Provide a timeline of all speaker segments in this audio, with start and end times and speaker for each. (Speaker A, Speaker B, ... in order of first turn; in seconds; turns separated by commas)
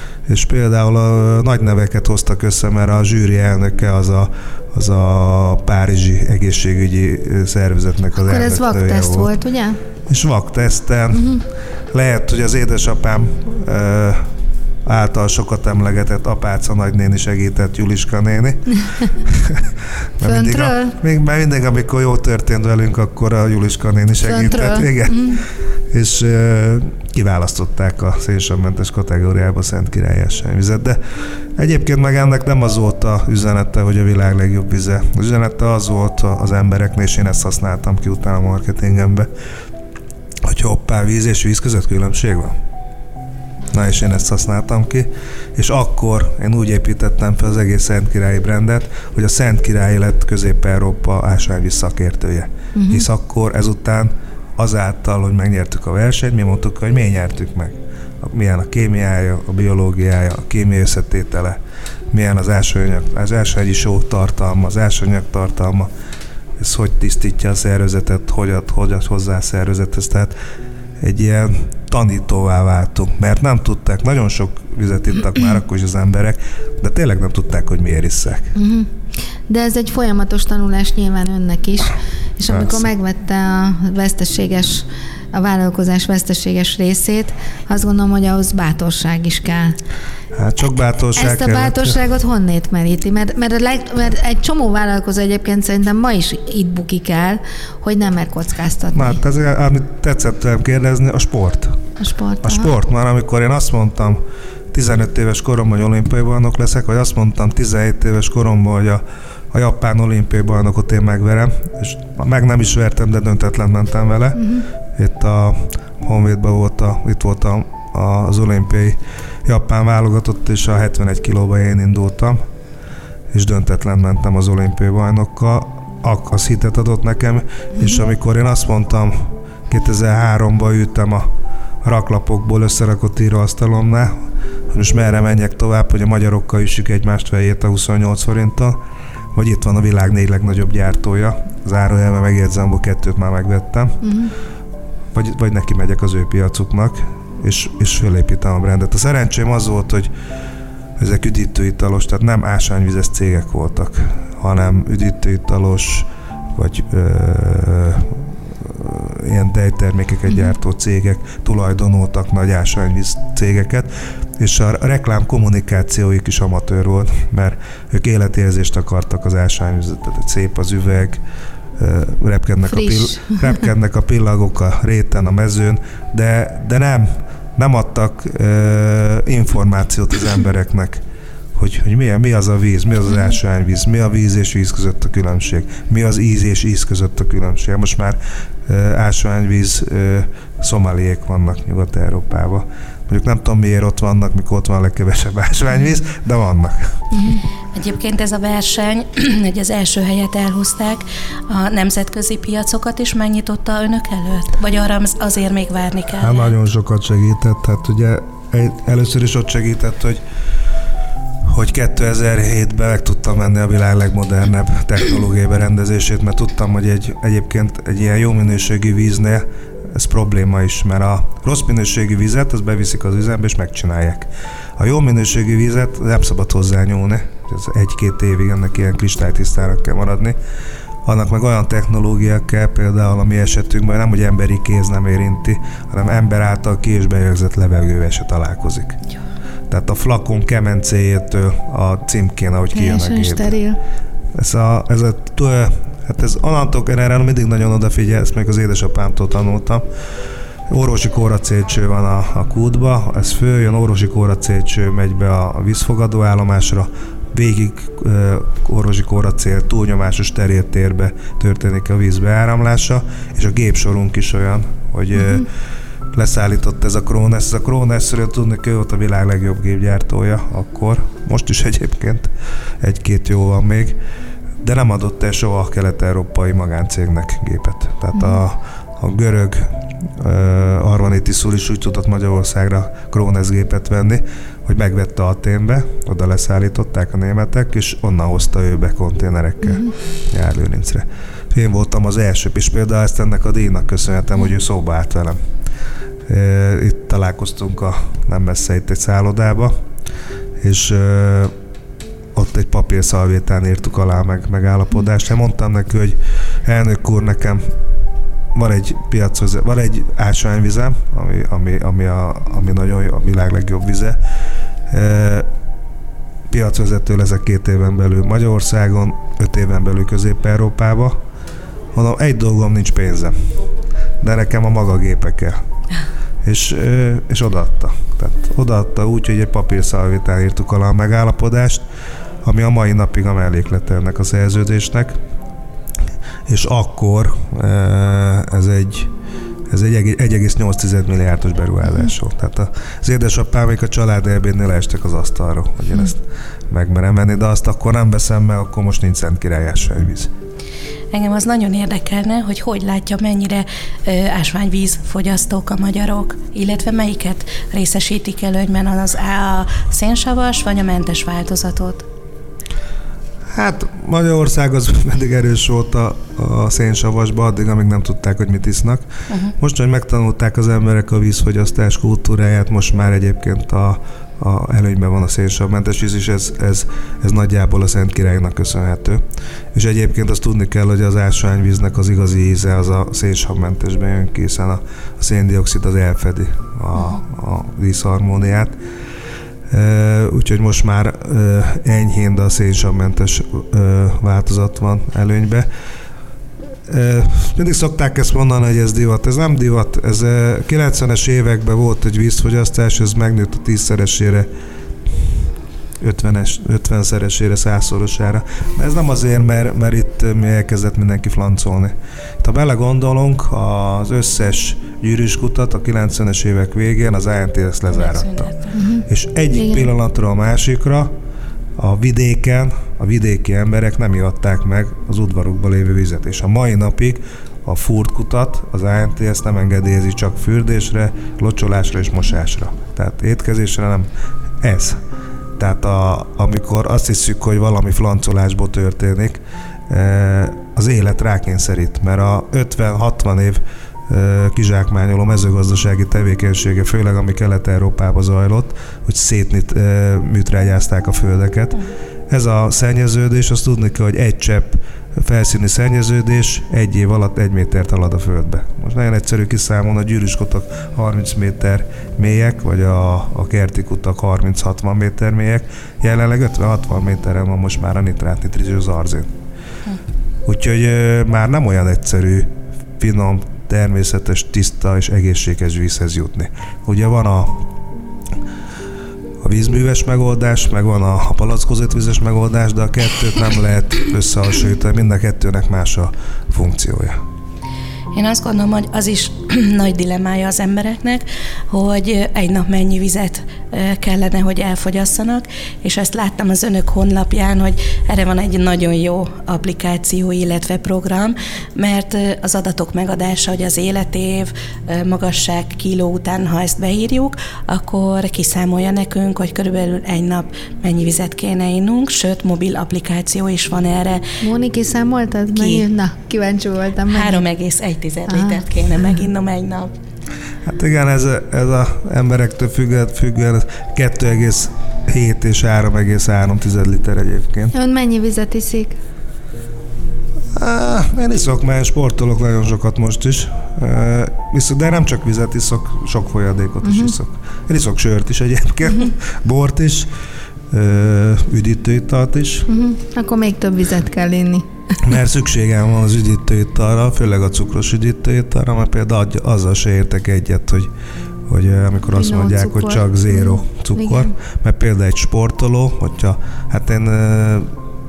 Speaker A: 0.3-9.3, Speaker B: 8.2-9.8, Speaker A: 10.1-11.3, Speaker B: 11.1-11.4, Speaker A: 11.9-14.3, Speaker A: 14.8-31.0, Speaker B: 20.2-20.9, Speaker B: 24.2-25.4, Speaker A: 31.6-39.3, Speaker A: 40.4-42.6, Speaker A: 43.7-61.6, Speaker B: 52.8-53.1, Speaker A: 62.1-65.9, Speaker A: 66.6-70.3, Speaker A: 71.0-78.5, Speaker B: 78.5-78.9, Speaker B: 79.5-89.8, Speaker A: 82.5-82.9, Speaker A: 90.3-92.0, Speaker B: 91.2-99.2, Speaker A: 98.9-101.8, Speaker B: 102.0-102.8, Speaker A: 102.4-104.2, Speaker A: 104.7-114.4, Speaker B: 114.3-114.7, Speaker A: 115.0-122.4, Speaker A: 123.3-131.3, Speaker A: 131.8-134.2, Speaker A: 134.7-138.8, Speaker A: 139.3-144.0, Speaker B: 144.0-144.3, Speaker A: 145.1-150.1, Speaker A: 151.0-171.2, Speaker A: 171.8-181.0, Speaker B: 172.7-173.6, Speaker A: 181.6-197.1, Speaker B: 197.1-197.4, Speaker C: 197.7-206.6, Speaker A: 206.2-210.2, Speaker A: 211.4-230.4, Speaker A: 231.1-239.0, Speaker A: 239.7-243.6, Speaker B: 242.7-243.8, Speaker A: 244.3-249.9, Speaker A: 250.7-265.5, Speaker B: 265.1-265.4, Speaker A: 266.1-274.0, Speaker A: 274.6-295.4, Speaker B: 278.1-278.4, Speaker B: 289.6-289.9, Speaker A: 296.3-299.8, Speaker A: 300.6-301.5, Speaker A: 302.4-307.6, Speaker A: 308.5-314.2, Speaker A: 314.9-315.5, Speaker A: 316.5-321.2, Speaker A: 321.9-323.3, Speaker A: 324.2-325.6, Speaker A: 326.4-331.8, Speaker A: 332.4-335.2, Speaker A: 336.5-339.1, Speaker A: 339.7-350.3, Speaker C: 351.1-362.1, Speaker A: 363.5-369.1, Speaker A: 369.6-379.2, Speaker A: 379.7-388.8, Speaker A: 389.7-395.7, Speaker A: 396.9-404.5, Speaker A: 406.0-418.5, Speaker C: 417.9-418.8, Speaker B: 418.7-419.9, Speaker A: 419.1-421.1, Speaker A: 421.8-434.1, Speaker A: 434.6-435.0, Speaker A: 435.6-469.3, Speaker A: 470.4-477.7, Speaker A: 479.4-487.2, Speaker C: 488.1-514.4, Speaker B: 514.4-517.5, Speaker C: 515.6-515.8, Speaker C: 517.1-519.9, Speaker B: 518.3-518.6, Speaker A: 520.6-527.7, Speaker B: 527.7-529.0, Speaker A: 530.6-540.1, Speaker B: 536.8-537.1, Speaker A: 540.7-542.7, Speaker B: 542.7-544.7, Speaker A: 545.0-550.9, Speaker A: 551.5-557.7, Speaker B: 552.1-554.3